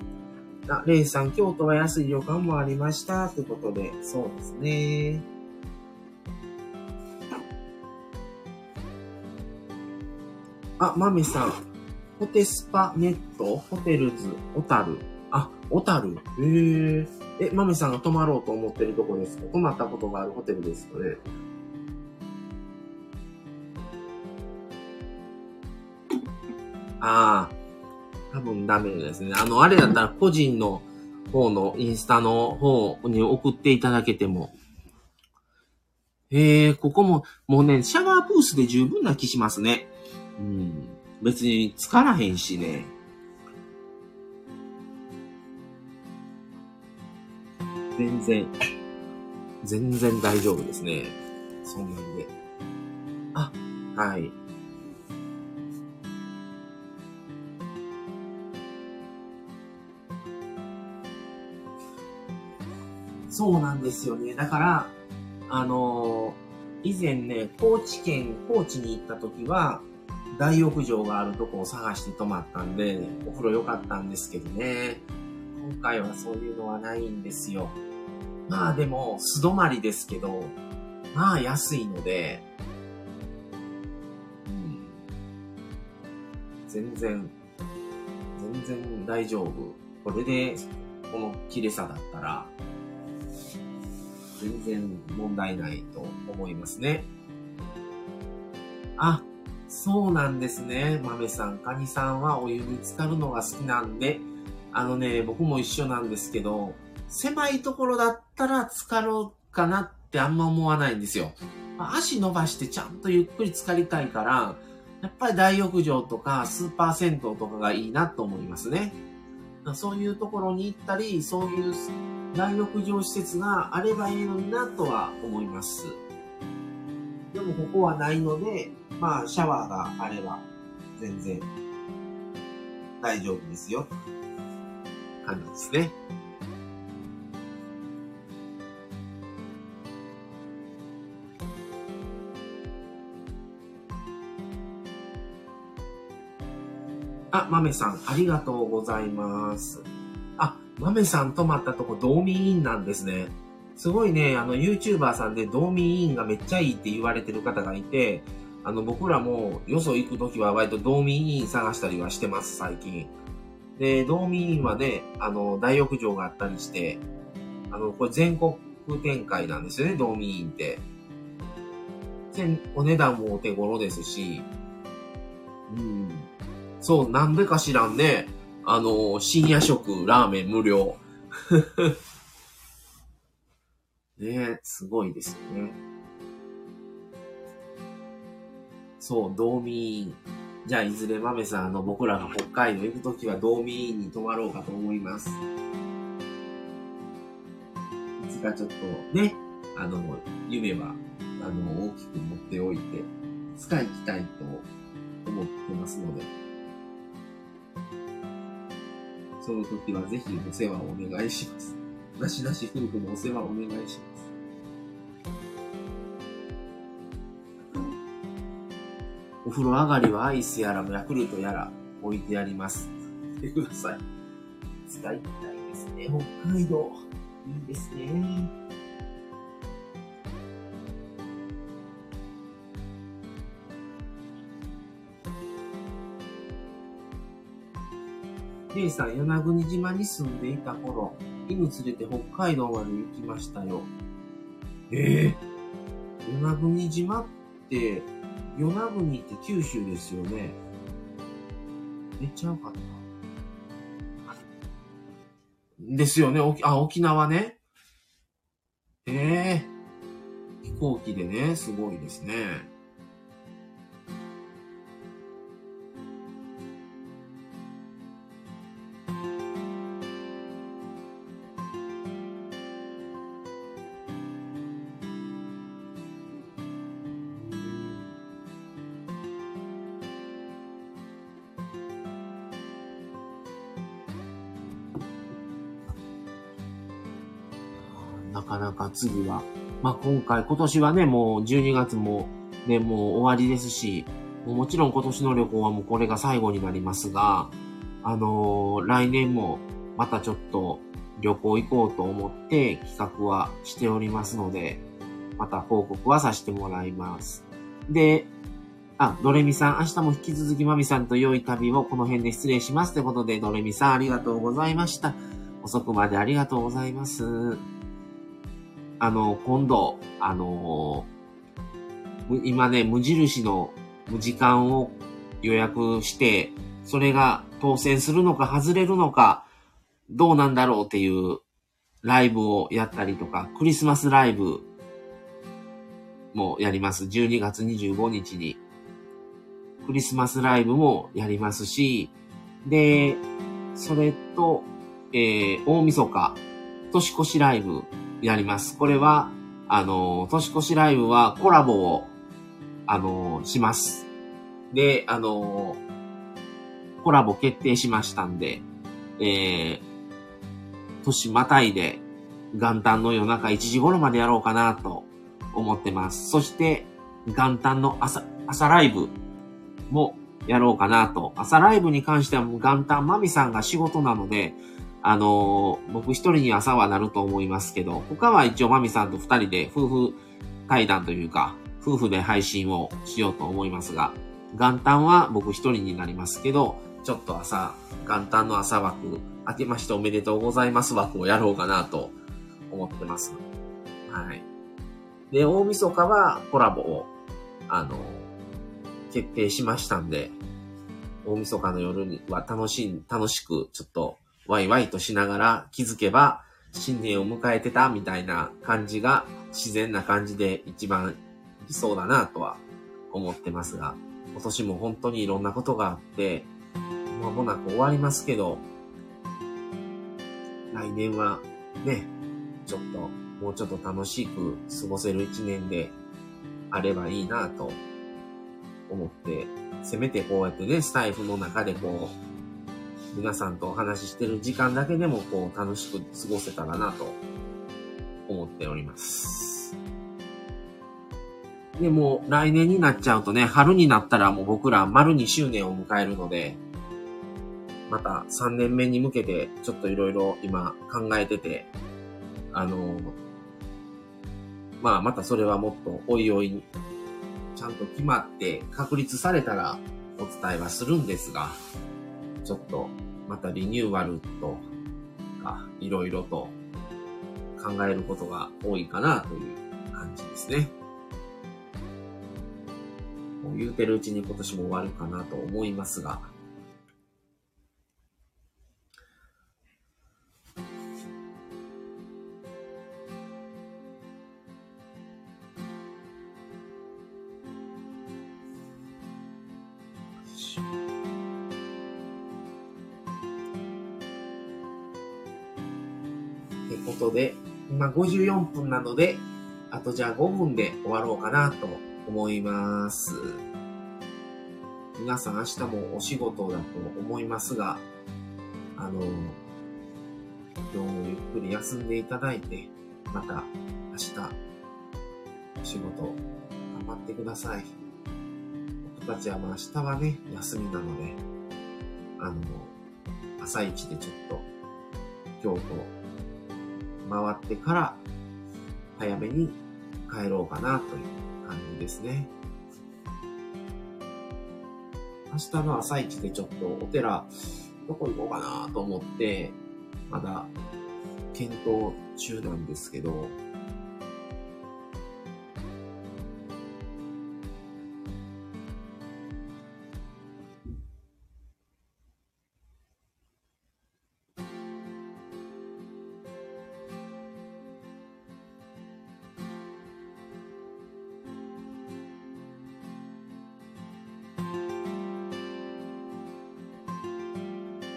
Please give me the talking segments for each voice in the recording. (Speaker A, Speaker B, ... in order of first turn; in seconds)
Speaker A: 0.7-5.2, 10.8-11.6, 12.2-21.2, 27.0-27.6, 28.3-34.5, 36.3-42.9, 48.0-48.5, 49.6-52.3, 53.3-54.3, 63.3-65.0, 65.5-75.0, 75.5-77.8, 78.5-80.5, 81.1-82.4, 84.5-85.0, 86.7-87.3, 88.3-92.5, 94.4-97.1, 99.0-119.0, 119.6-126.0, 127.3-130.4, 131.0-131.5, 133.0-133.9, 135.2-135.9, 147.3-149.8, 150.4-163.1, 163.8-167.0, 167.7-170.8, 172.3-174.5, 175.7-176.3, 176.8-181.9, 184.2-185.8, 189.0-195.4, 198.2-204.7, 205.2-206.3, 209.4-214.3, 219.4-224.0, 224.9-228.5, 238.7-243.9, 244.9-245.4, 246.2-250.6, 252.2-253.0, 255.8-257.6, 259.1-259.7, 260.6-262.7, 277.3-278.1, 287.9-304.9, 305.4-308.3, 309.0-317.6, 319.0-321.1, 322.3-329.5, 330.1-331.4, 332.0-334.7, 336.3-338.6, 339.8-342.1, 342.6-343.2, 343.8-346.4, 346.9-352.1, 352.9-354.1, 354.7-355.8, 357.0-358.7, 359.2-359.9, 361.0-369.1, 369.9-392.1, 392.7-393.4, 394.1-394.4, 395.3-397.1, 397.7-398.3, 399.1-400.4, 401.2-416.5, 417.1-418.7, 420.7-422.1, 422.7-425.9, 426.7-427.8, 428.9-432.1, 433.1-437.2, 438.3-439.7, 441.8-446.6, 447.9-451.7, 452.5-453.1, 454.8-456.7, 457.6-461.6, 462.4-464.7, 465.4-466.6, 467.6-470.7, 473.4-476.3, 496.7-503.4, 505.0-507.9, 508.8-509.4, 510.7-514.4, 515.6-516.2, 516.7-517.7, 518.8-521.2, 522.2-522.7, 523.4-524.5, 525.4-525.9, 527.0-528.0, 529.0-532.3, 535.3-537.3, 537.9-539.6, 540.1-540.5, 541.3-543.4